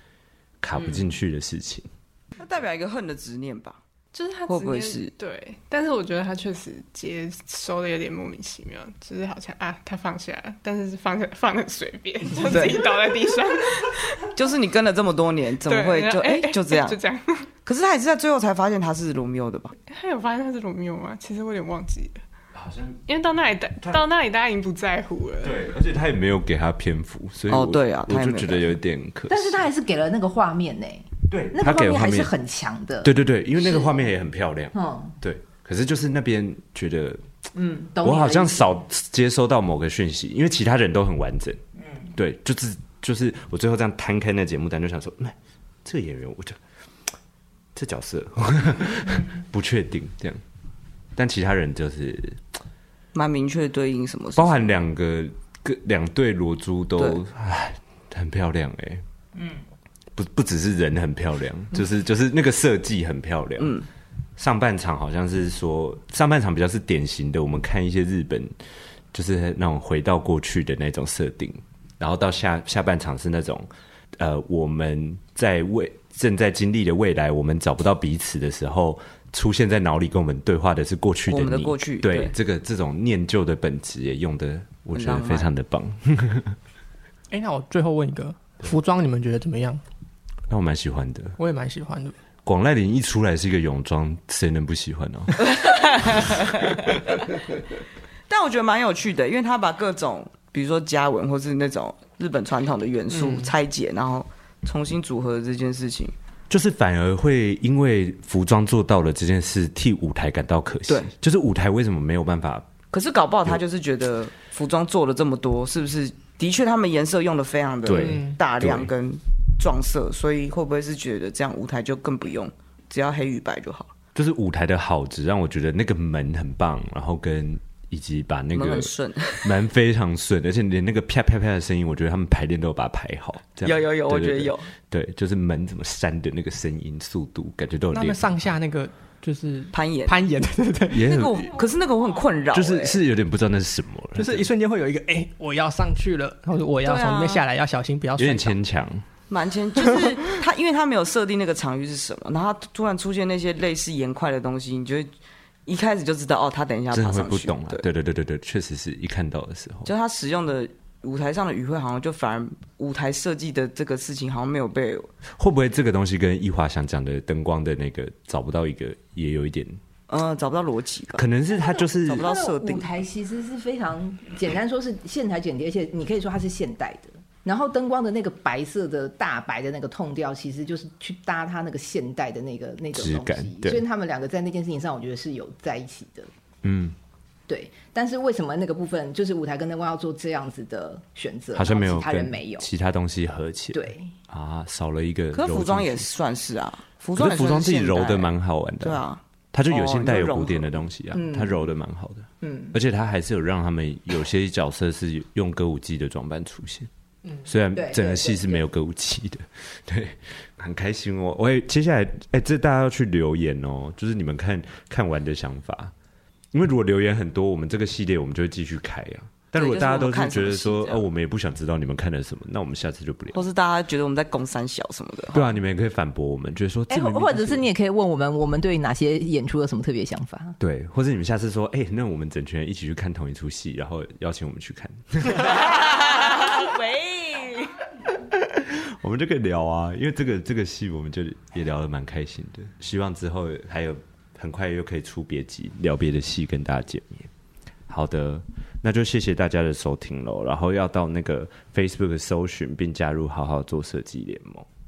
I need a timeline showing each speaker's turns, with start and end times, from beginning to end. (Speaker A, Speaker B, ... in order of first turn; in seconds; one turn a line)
Speaker A: 0.6-1.9
Speaker B: 2.4-3.8
Speaker C: 4.1-14.3
Speaker B: 4.5-5.1
Speaker B: 12.4-12.9
Speaker B: 14.3-17.0
Speaker C: 15.7-17.5
Speaker B: 17.6-19.7
Speaker C: 19.7-22.2
Speaker A: 22.5-23.0
Speaker C: 23.1-25.6
Speaker A: 25.4-29.6
Speaker B: 27.5-28.8
Speaker D: 29.3-34.1
Speaker A: 31.3-32.3
Speaker A: 33.0-37.2
Speaker D: 34.7-35.1
Speaker D: 37.5-38.8
Speaker A: 38.0-41.6
Speaker A: 42.1-46.6
Speaker A: 47.7-50.4
Speaker A: 51.1-52.4
Speaker B: 53.1-54.8
Speaker A: 54.4-59.0
Speaker A: 60.1-63.8
Speaker B: 63.6-63.9
Speaker A: 64.4-68.5
Speaker A: 69.1-86.6
Speaker B: 81.3-82.3
Speaker B: 84.9-85.5
Speaker E: 87.3-89.8
Speaker A: 90.5-91.4
Speaker E: 91.4-92.1
Speaker A: 92.4-97.1
Speaker B: 95.4-97.2
Speaker B: 98.3-106.1
Speaker E: 103.1-103.5
Speaker A: 106.5-112.7
Speaker B: 112.9-123.9
Speaker A: 117.8-118.9
Speaker E: 117.9-118.3
Speaker A: 124.1-138.3
Speaker B: 128.5-129.6
Speaker B: 133.6-134.7
Speaker E: 137.9-141.4
Speaker B: 139.7-140.3
Speaker A: 140.9-141.4
Speaker B: 140.9-143.0
Speaker A: 142.5-144.5
Speaker E: 144.2-148.6
Speaker B: 146.8-147.4
Speaker A: 148.2-149.1
Speaker B: 149.3-155.1
Speaker B: 155.7-157.9
Speaker A: 156.9-159.9
Speaker B: 159.8-165.1
Speaker A: 165.3-169.8
Speaker B: 170.1-171.3
Speaker A: 171.1-172.3
Speaker D: 171.5-186.3
Speaker B: 172.0-172.9
Speaker A: 182.9-183.8
Speaker A: 186.6-186.9
Speaker D: 187.5-192.7
Speaker A: 191.5-196.1
Speaker D: 193.7-194.1
Speaker B: 195.3-200.8
Speaker A: 197.2-206.9
Speaker D: 201.1-201.6
Speaker D: 202.4-202.8
Speaker D: 207.4-208.7
Speaker A: 207.4-215.9
Speaker A: 216.5-223.5
Speaker B: 219.5-221.1
Speaker B: 223.3-225.5
Speaker A: 225.3-227.7
Speaker D: 226.9-230.6
Speaker A: 230.6-236.6
Speaker B: 235.3-237.7
Speaker A: 238.1-247.3
Speaker A: 247.9-254.7